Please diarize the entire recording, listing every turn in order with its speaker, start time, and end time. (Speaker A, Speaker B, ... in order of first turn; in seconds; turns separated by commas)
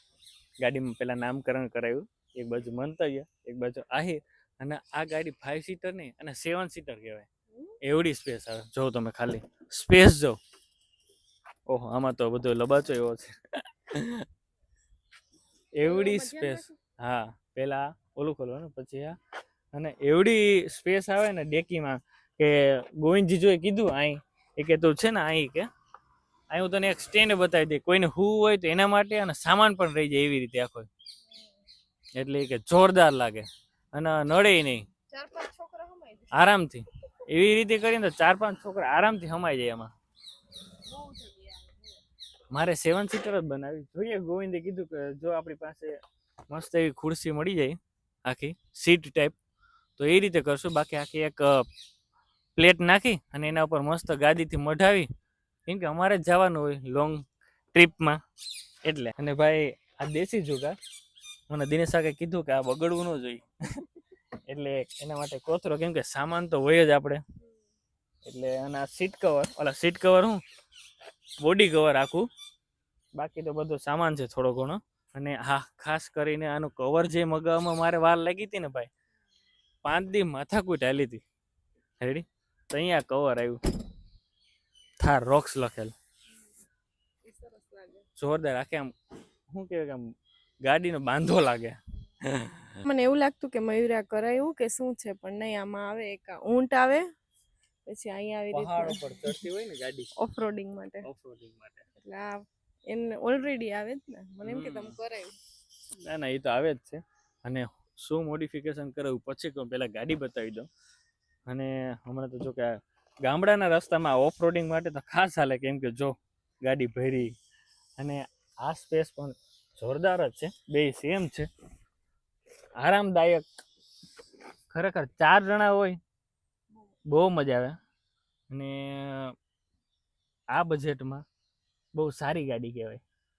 Speaker A: 0.6-7.3, Speaker B: 7.5-7.8, Speaker A: 7.8-10.4, Speaker A: 11.7-14.2, Speaker A: 15.8-19.2, Speaker B: 15.8-16.8, Speaker A: 19.7-25.7, Speaker A: 26.5-30.9, Speaker B: 31.3-31.6, Speaker A: 32.2-34.9, Speaker B: 35.1-36.6, Speaker A: 36.3-39.9, Speaker B: 40.8-42.0, Speaker A: 42.5-49.4, Speaker A: 50.0-51.7, Speaker A: 52.6-55.1, Speaker A: 55.7-58.2, Speaker A: 58.9-60.8, Speaker A: 61.5-63.9, Speaker A: 64.5-67.2, Speaker A: 68.3-70.4, Speaker A: 71.4-72.3, Speaker A: 73.2-78.9, Speaker A: 79.8-81.2, Speaker A: 82.0-83.6, Speaker A: 85.0-85.9, Speaker B: 87.2-88.1, Speaker A: 88.2-89.0, Speaker A: 89.5-90.1, Speaker A: 90.6-92.8, Speaker B: 92.9-97.1, Speaker B: 97.9-99.5, Speaker A: 98.5-100.1, Speaker B: 100.2-101.1, Speaker A: 101.0-101.9, Speaker B: 102.0-105.4, Speaker A: 104.4-105.0, Speaker A: 106.0-110.7, Speaker A: 111.5-117.3, Speaker A: 118.0-121.5, Speaker A: 122.8-123.5, Speaker A: 124.7-126.0, Speaker A: 127.1-127.8, Speaker A: 128.5-129.4, Speaker A: 130.5-131.2, Speaker A: 131.9-133.0